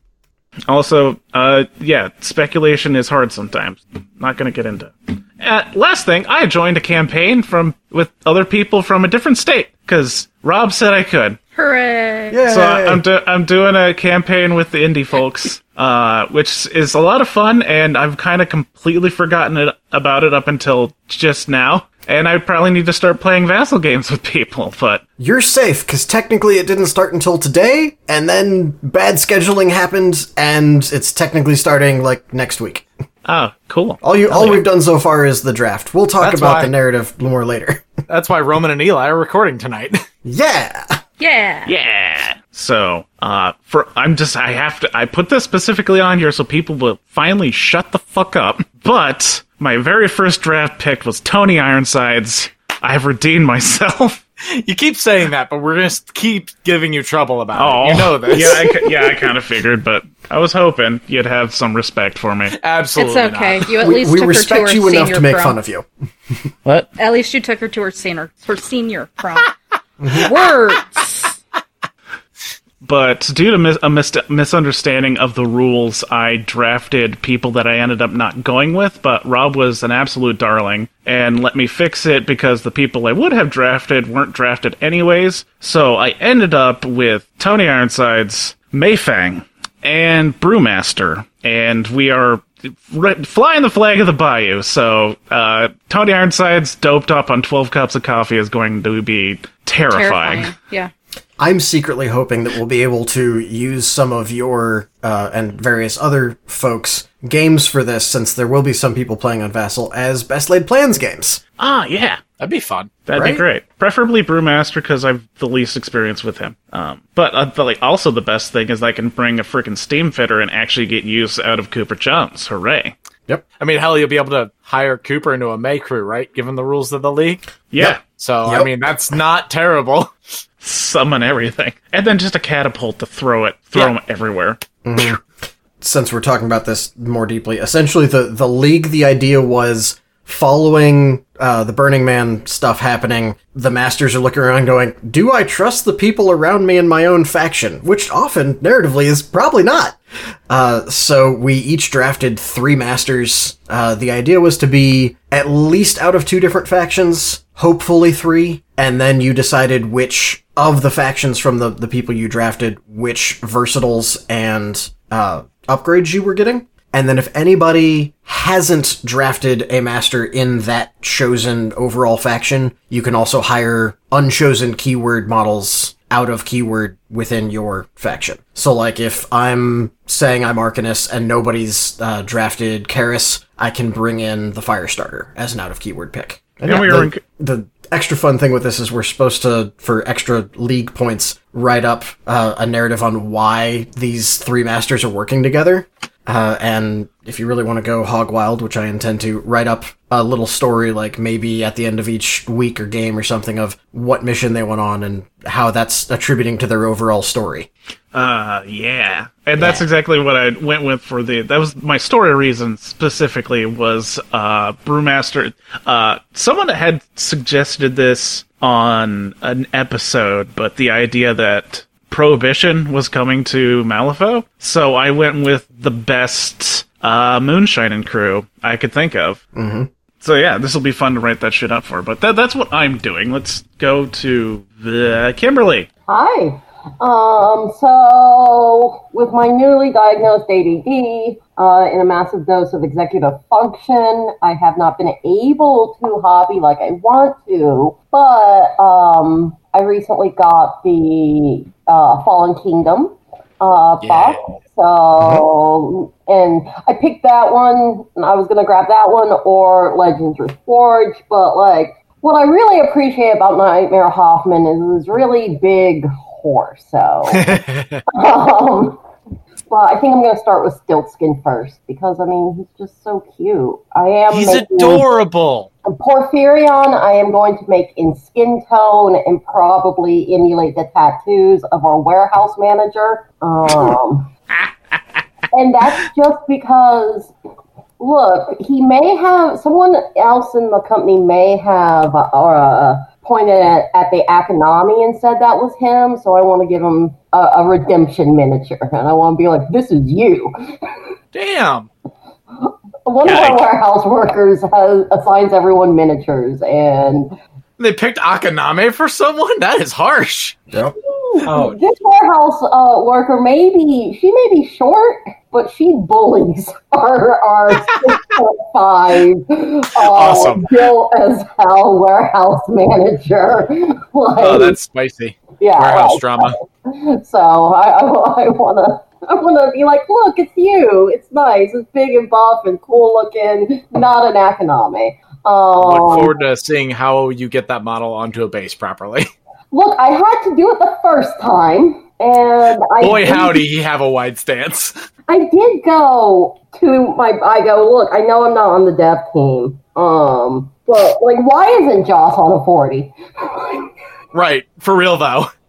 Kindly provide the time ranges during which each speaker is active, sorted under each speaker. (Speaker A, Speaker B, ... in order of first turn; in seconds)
Speaker A: 0.7-11.4, 12.4-25.0, 33.2-34.6, 41.6-54.2, 57.5-62.6, 72.8-100.5, 111.6-112.2, 113.0-122.9, 127.7-128.0, 130.6-134.6, 186.6-187.2, 208.1-229.4, 230.2-235.9, 303.2-303.6
Speaker B: 11.6-12.4, 41.2-41.7, 62.9-65.6, 66.9-69.5, 70.1-71.3, 99.9-100.9
Speaker C: 12.3-13.0, 25.2-32.8, 34.0-37.9, 40.2-41.0, 63.8-65.9, 70.0-70.3, 101.4-111.4, 113.1-113.4, 127.8-128.7, 134.8-135.2, 135.8-150.0, 150.5-207.7, 209.6-209.8, 229.5-229.9
Speaker D: 36.2-36.7, 38.1-40.0, 54.5-58.8, 62.5-63.7, 112.4-112.9, 123.6-127.4, 128.0-130.1, 254.0-254.5, 267.3-268.0, 274.3-275.7, 301.3-301.9, 307.8-310.6, 320.0-320.7, 324.4-326.6, 335.8-339.3, 343.0-345.0, 354.3-355.5
Speaker E: 236.1-267.5, 268.1-269.0, 269.7-275.1, 275.8-284.3, 285.5-287.3, 288.0-300.5, 302.6-307.4, 311.0-324.8, 325.6-336.3, 339.7-343.6, 345.3-353.8